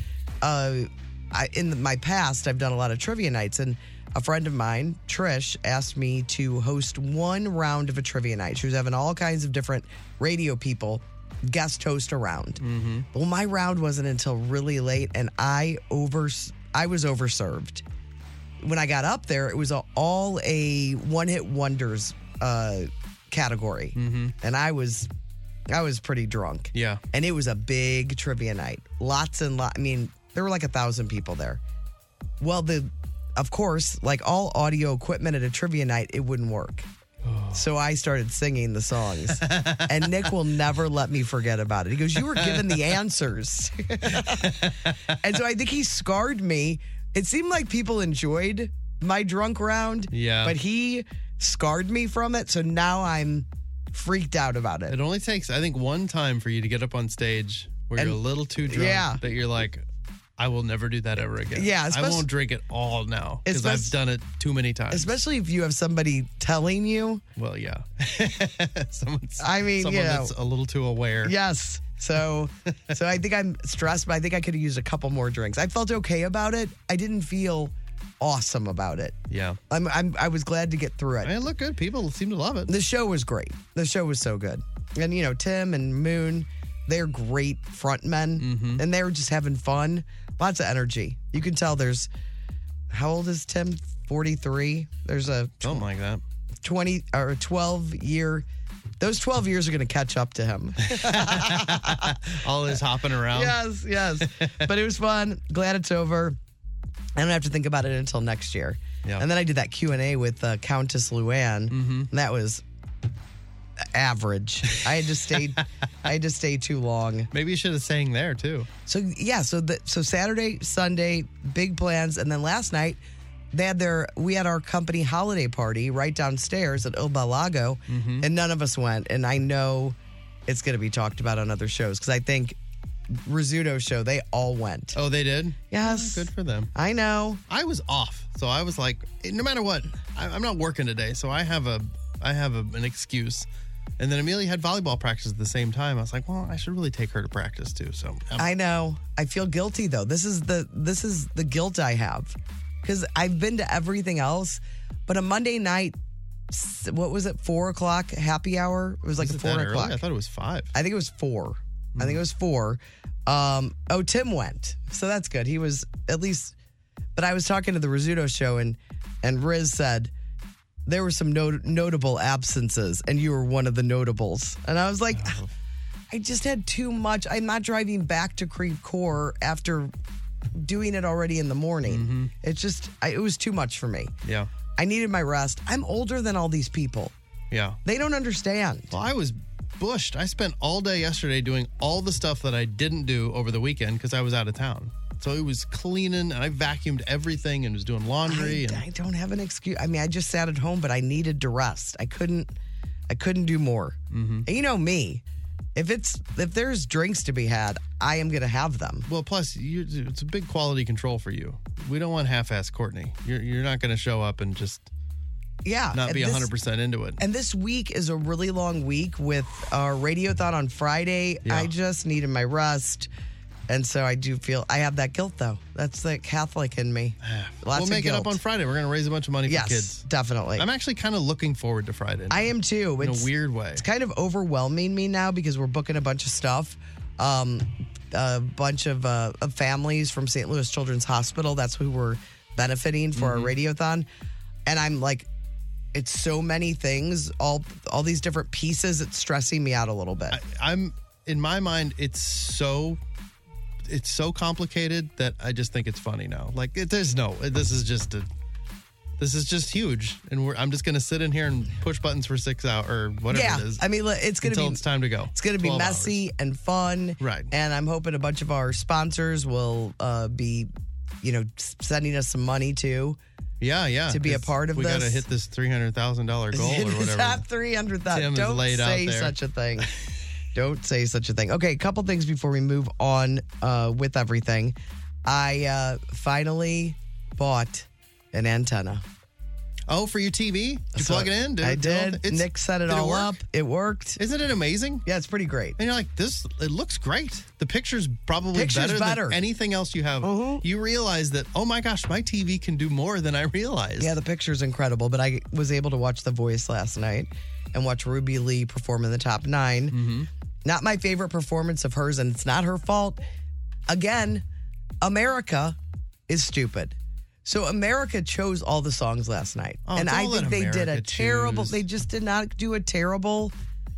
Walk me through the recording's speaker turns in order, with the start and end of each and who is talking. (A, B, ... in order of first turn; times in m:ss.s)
0:00.4-0:17.8 A
0:12.6-0:13.1 B
0:18.6-0:25.1 A
0:24.0-0:24.3 B
0:25.7-0:31.6 A
0:26.7-0:27.0 B
0:32.4-0:36.9 A
0:37.2-0:37.6 B
0:37.5-0:44.6 A
0:39.4-0:39.8 B
0:42.3-0:42.8 B
0:44.1-0:45.0 B
0:45.2-0:55.0 A
0:50.1-0:50.6 B
0:54.9-0:59.8 B
0:58.0-0:59.2 A
1:00.4-1:05.1 B
1:01.5-1:02.3 A
1:03.5-1:04.0 A
1:04.9-1:07.2 A
1:07.4-1:11.4 B
1:09.4-1:10.3 A
1:11.2-1:19.2 A
1:19.3-1:19.6 B
1:19.7-1:21.4 A
1:21.2-1:22.7 B
1:22.7-1:32.1 A
1:28.4-1:28.8 B
1:32.9-1:35.8 A
1:35.6-1:36.2 B
1:36.6-1:38.5 A
1:39.0-1:42.2 A
1:40.9-1:43.6 B
1:43.3-1:46.4 A
1:44.2-1:44.6 B
1:47.2-1:52.6 A
1:51.7-1:52.1 B
1:53.9-1:57.3 A
1:57.3-1:58.7 B
1:58.9-2:03.0 A
2:03.5-2:10.0 A
2:07.9-2:08.3 B
2:10.5-2:12.6 A
2:13.1-2:15.0 A
2:15.0-2:16.7 B
2:15.7-2:17.4 A
2:17.5-2:23.5 B
2:24.0-2:28.5 B
2:28.4-2:36.0 A
2:36.5-2:40.0 A
2:39.2-2:40.7 B
2:40.7-2:46.6 A
2:42.0-2:42.2 B
2:47.2-2:50.1 A
2:50.9-2:55.4 A
2:55.1-2:55.5 B
2:56.1-2:59.9 A
3:00.6-3:04.1 A
3:01.9-3:02.3 B
3:04.8-3:07.1 A
3:07.5-3:07.8 B
3:07.8-3:09.0 A
3:08.9-3:18.8 B
3:18.2-3:22.5 A
3:23.1-3:25.2 A
3:24.1-3:24.5 B
3:25.8-3:29.1 A
3:29.1-3:34.9 B
3:35.6-3:36.5 A
3:35.9-3:37.2 B
3:37.2-3:43.1 A
3:41.4-3:41.7 B
3:43.7-3:48.4 A
3:47.2-3:50.0 B
3:49.5-3:50.7 A
3:50.6-3:53.8 B
3:52.3-4:04.1 A
4:03.2-4:03.6 B
4:04.7-4:05.3 A
4:05.9-4:10.4 A
4:10.3-4:13.0 B
4:13.8-4:18.3 B
4:19.2-4:23.8 B
4:23.3-4:24.8 A
4:24.4-4:26.2 B
4:25.3-4:30.7 A
4:27.2-4:27.5 B
4:31.2-4:33.2 A
4:33.6-4:37.4 B
4:34.1-4:35.2 A
4:36.5-4:39.9 A
4:38.1-4:39.4 B
4:40.6-4:49.0 A
4:49.9-4:53.4 B
4:51.0-4:54.2 A
4:54.2-4:55.0 B
4:55.1-4:55.8 A
4:55.8-5:04.2 B
4:58.5-4:59.4 A
5:00.2-5:00.6 A
5:04.0-5:10.0 A
5:09.9-5:10.3 B
5:10.6-5:13.2 A
5:13.9-5:14.4 A
5:15.0-5:15.8 A
5:16.3-5:23.5 A
5:19.9-5:21.8 B